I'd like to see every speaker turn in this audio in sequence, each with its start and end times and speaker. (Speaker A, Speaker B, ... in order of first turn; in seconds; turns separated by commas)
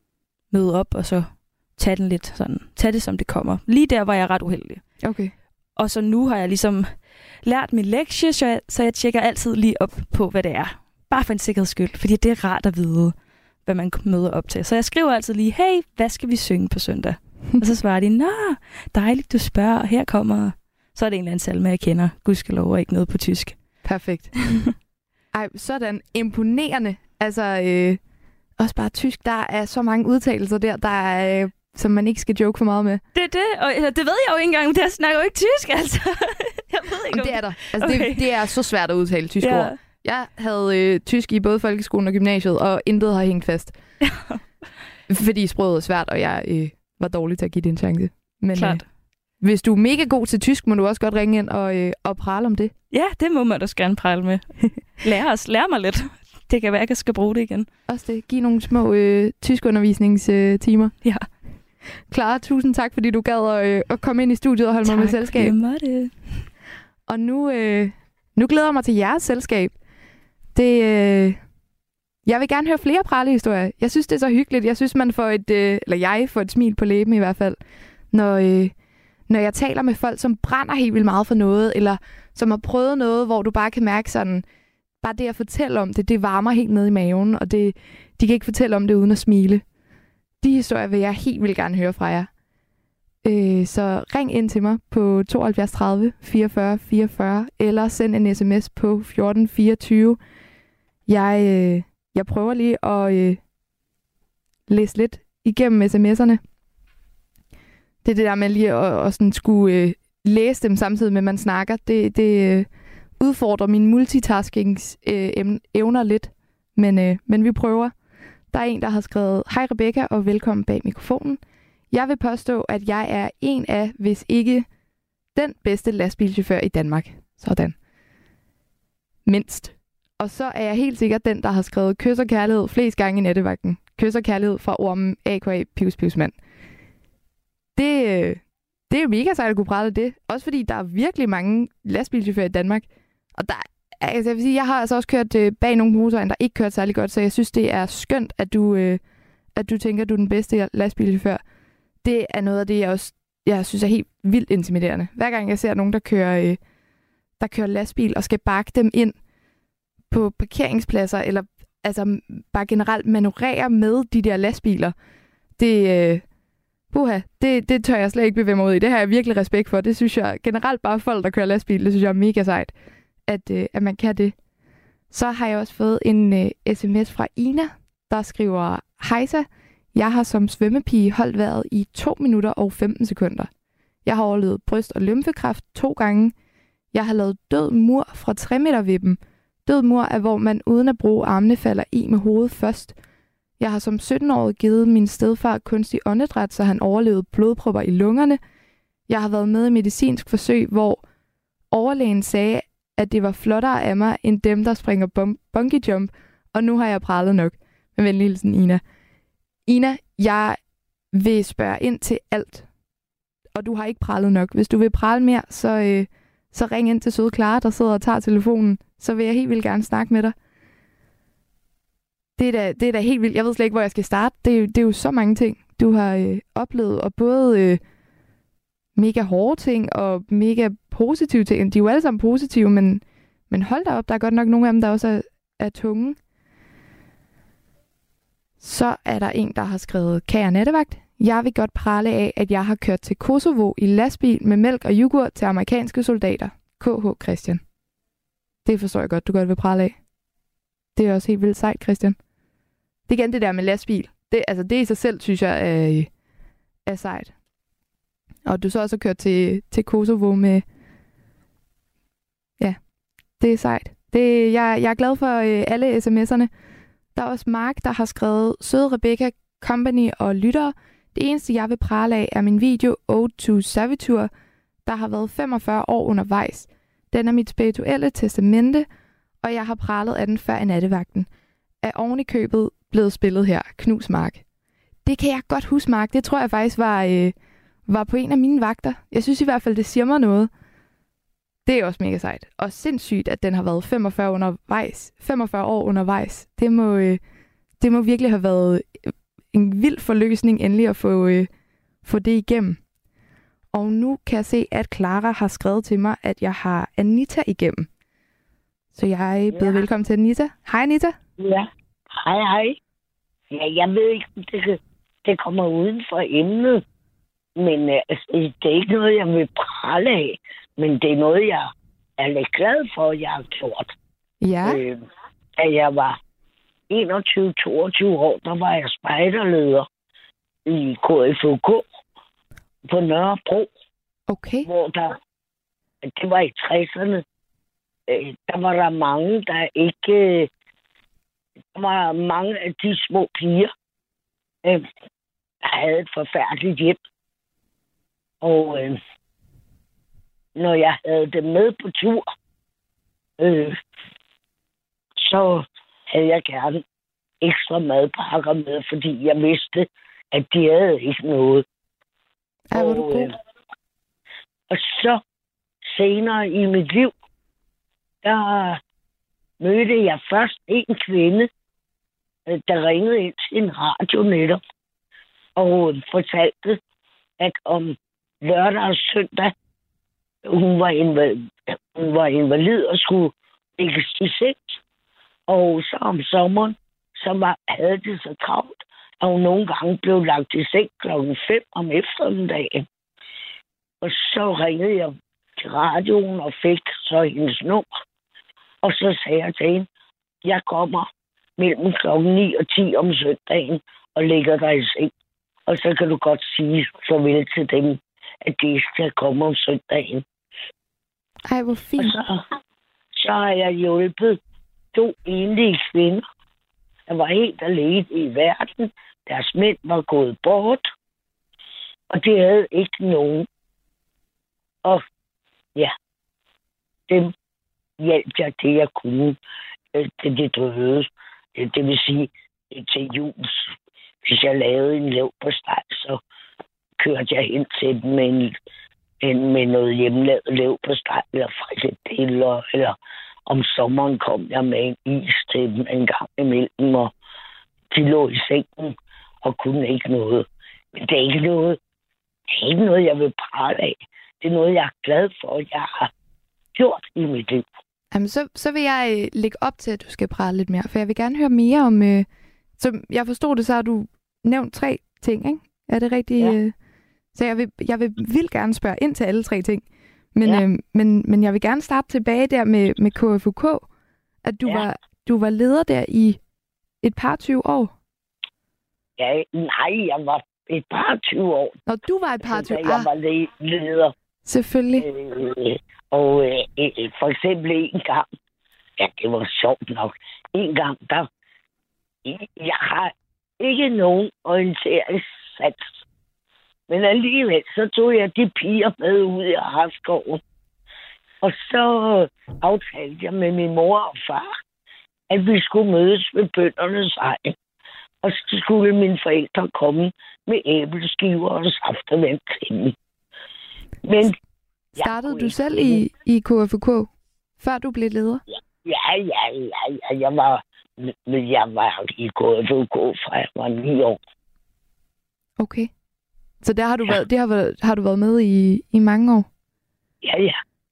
Speaker A: 0.5-4.9, Speaker B: 5.0-5.3, Speaker A: 5.8-23.6, Speaker B: 23.8-24.4, Speaker B: 25.3-28.0, Speaker B: 28.6-33.0, Speaker A: 33.1-38.3, Speaker B: 37.1-43.8, Speaker A: 39.4-39.8, Speaker A: 44.0-44.4, Speaker B: 45.1-48.9, Speaker A: 48.5-48.9, Speaker B: 49.4-52.7, Speaker A: 52.9-57.7, Speaker B: 57.9-61.0, Speaker B: 62.1-65.5, Speaker A: 64.8-66.5, Speaker B: 67.1-69.8, Speaker B: 70.5-71.4, Speaker B: 72.2-77.6, Speaker B: 78.1-78.7, Speaker B: 79.3-84.4, Speaker B: 85.0-89.6, Speaker B: 90.4-92.3, Speaker B: 93.2-100.2, Speaker B: 101.1-103.4, Speaker B: 104.7-106.4, Speaker B: 108.0-117.9, Speaker B: 118.5-121.4, Speaker B: 121.9-124.7, Speaker B: 125.3-127.8, Speaker B: 129.2-136.3, Speaker B: 137.8-149.0, Speaker B: 149.6-151.4, Speaker B: 152.0-156.6, Speaker B: 157.4-159.2, Speaker B: 160.1-164.9, Speaker B: 165.6-166.2, Speaker B: 166.9-172.7, Speaker B: 173.3-174.3, Speaker B: 175.1-183.5, Speaker B: 184.1-186.3, Speaker B: 186.9-193.0, Speaker B: 193.6-198.4, Speaker B: 199.1-201.0, Speaker B: 201.7-208.8, Speaker B: 209.7-210.6, Speaker B: 211.1-212.7, Speaker B: 213.5-220.3, Speaker B: 222.4-227.8, Speaker B: 228.9-236.2, Speaker B: 238.6-247.6, Speaker B: 248.7-250.0, Speaker B: 250.9-252.2, Speaker B: 253.1-256.1, Speaker B: 256.9-257.3, Speaker B: 258.4-260.6, Speaker B: 263.4-266.5, Speaker B: 267.1-274.3, Speaker B: 274.9-278.9, Speaker B: 279.4-281.3, Speaker B: 281.8-284.4, Speaker B: 285.1-287.4, Speaker B: 287.9-290.5, Speaker B: 291.6-297.2, Speaker B: 297.8-301.5, Speaker B: 302.1-302.8, Speaker B: 303.7-307.9, Speaker B: 308.9-311.2, Speaker C: 309.5-309.9, Speaker C: 311.4-312.8, Speaker C: 313.5-316.8, Speaker C: 317.6-323.9, Speaker B: 324.4-324.8, Speaker C: 324.6-325.0, Speaker C: 325.6-326.2, Speaker C: 326.9-329.9, Speaker C: 330.7-331.8, Speaker C: 332.9-333.7, Speaker B: 334.3-334.7, Speaker C: 334.7-335.2, Speaker C: 336.0-337.2, Speaker C: 338.1-340.5, Speaker C: 341.8-343.7, Speaker C: 345.6-347.0, Speaker C: 348.4-349.0, Speaker C: 350.6-352.3, Speaker C: 353.4-353.8, Speaker C: 355.2-356.8, Speaker C: 357.4-361.6, Speaker B: 362.7-363.3, Speaker C: 362.7-363.4, Speaker C: 364.7-365.2, Speaker C: 365.9-367.1, Speaker C: 368.2-368.8, Speaker C: 369.6-371.5, Speaker C: 372.5-374.6, Speaker C: 375.6-376.8, Speaker C: 377.4-379.5, Speaker C: 380.4-384.8, Speaker C: 385.5-392.9, Speaker C: 394.0-397.9, Speaker C: 398.8-399.9, Speaker C: 400.4-405.1, Speaker C: 405.7-410.2, Speaker B: 411.5-412.2, Speaker C: 412.0-412.4, Speaker C: 413.2-414.4, Speaker C: 414.9-416.2, Speaker C: 417.1-420.9, Speaker C: 422.1-423.5, Speaker C: 428.0-429.4, Speaker C: 429.9-433.7, Speaker C: 434.2-436.2, Speaker C: 437.0-438.6, Speaker C: 439.2-442.9, Speaker C: 443.5-447.1, Speaker C: 447.9-451.8, Speaker C: 452.5-456.1, Speaker C: 456.8-457.6, Speaker B: 458.1-462.3, Speaker B: 462.8-466.7, Speaker B: 467.3-473.9, Speaker B: 474.4-476.4, Speaker B: 477.0-477.9, Speaker C: 479.2-481.8, Speaker B: 481.9-483.1, Speaker C: 482.4-484.1, Speaker B: 484.4-485.1, Speaker C: 485.0-488.3, Speaker C: 489.0-491.3, Speaker C: 492.2-495.9, Speaker C: 496.9-500.4, Speaker C: 501.4-504.5, Speaker C: 505.3-507.6, Speaker C: 508.2-513.0, Speaker C: 514.0-514.4, Speaker C: 515.0-516.0, Speaker B: 515.0-518.4, Speaker C: 518.9-524.2, Speaker B: 525.6-525.9, Speaker B: 526.6-529.5, Speaker C: 530.2-530.6